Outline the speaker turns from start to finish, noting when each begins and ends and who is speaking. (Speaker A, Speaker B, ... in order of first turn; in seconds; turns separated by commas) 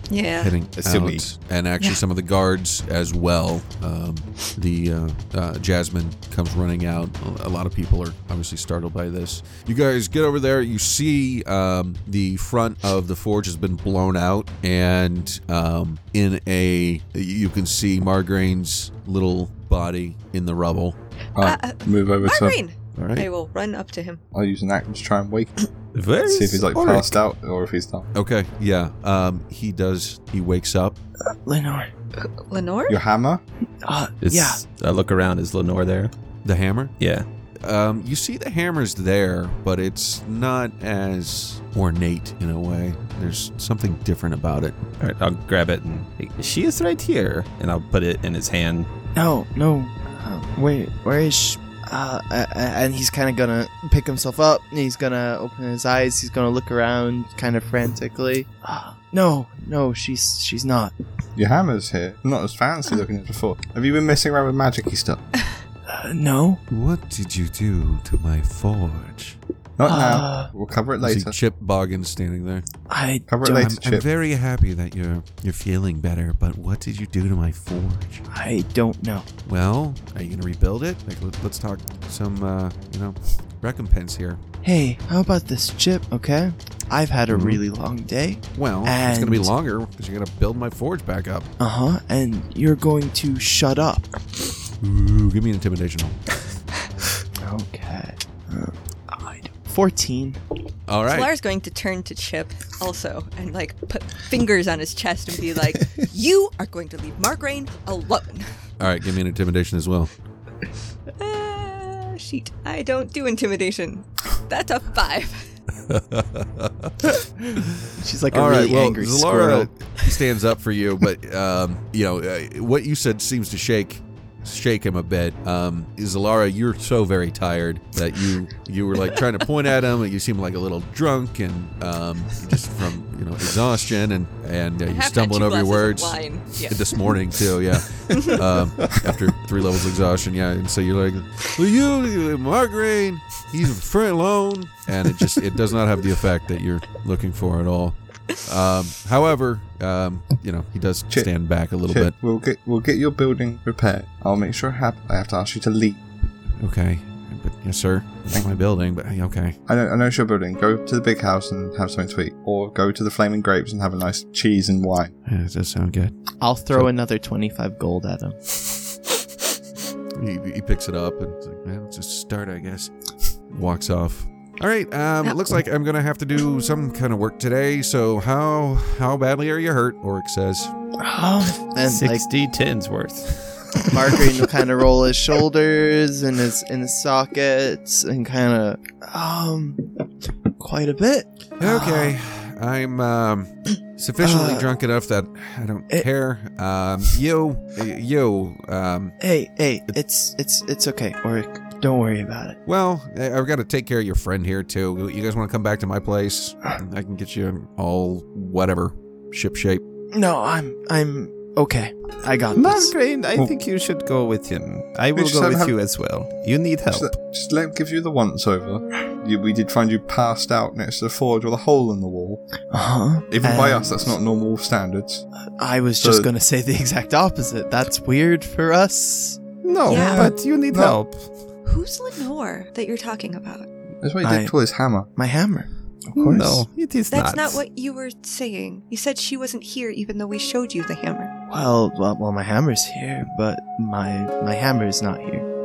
Speaker A: 0.1-0.5, Speaker B: 0.4-21.0, Speaker C: 0.8-1.2, Speaker C: 21.4-22.6, Speaker A: 21.4-24.2, Speaker B: 22.9-23.3, Speaker C: 24.3-25.5, Speaker D: 25.9-27.2, Speaker C: 26.2-28.1, Speaker B: 28.1-31.0, Speaker E: 31.4-31.9, Speaker A: 32.2-33.0, Speaker C: 32.9-33.4, Speaker E: 33.8-34.6, Speaker D: 34.2-36.1, Speaker B: 36.4-36.9, Speaker D: 37.0-37.2, Speaker B: 37.6-44.8, Speaker D: 45.0-48.9, Speaker E: 49.1-60.9, Speaker C: 61.4-65.2, Speaker E: 65.9-66.6, Speaker B: 66.7-69.4, Speaker C: 69.8-71.3, Speaker E: 69.8-70.5, Speaker B: 71.0-72.7, Speaker E: 72.9-73.7, Speaker C: 73.3-74.1, Speaker B: 73.6-78.2, Speaker E: 78.3-79.2, Speaker B: 79.5-84.4, Speaker E: 84.6-89.5, Speaker B: 87.3-87.6, Speaker B: 88.6-91.5, Speaker E: 91.6-94.1, Speaker B: 94.8-96.2, Speaker E: 97.4-100.4, Speaker B: 100.9-101.3, Speaker A: 101.1-108.5, Speaker B: 108.8-110.1, Speaker A: 111.2-115.5, Speaker B: 115.9-152.1, Speaker E: 117.9-119.7, Speaker A: 134.9-137.0, Speaker A: 138.1-138.4, Speaker C: 151.1-156.0, Speaker B: 156.6-159.6, Speaker C: 159.7-165.1, Speaker B: 165.3-166.1, Speaker E: 166.4-168.6, Speaker B: 170.2-172.9, Speaker B: 173.5-180.7, Speaker E: 181.0-182.2, Speaker D: 181.8-184.3, Speaker E: 183.9-190.0, Speaker E: 190.6-192.2, Speaker B: 191.6-199.2, Speaker E: 194.2-194.7, Speaker E: 199.2-202.6, Speaker B: 202.7-209.8, Speaker E: 210.1-212.9, Speaker D: 212.5-217.1, Speaker C: 215.2-215.8, Speaker C: 216.9-222.4, Speaker E: 222.7-224.2, Speaker C: 223.3-225.2, Speaker E: 225.6-229.4, Speaker C: 226.0-226.3, Speaker D: 229.6-231.3, Speaker A: 229.9-230.3, Speaker C: 229.9-231.0, Speaker A: 231.7-233.7, Speaker C: 234.0-235.1, Speaker E: 234.2-234.6, Speaker E: 235.2-236.7, Speaker D: 236.1-237.6, Speaker A: 237.1-241.3, Speaker E: 241.5-245.5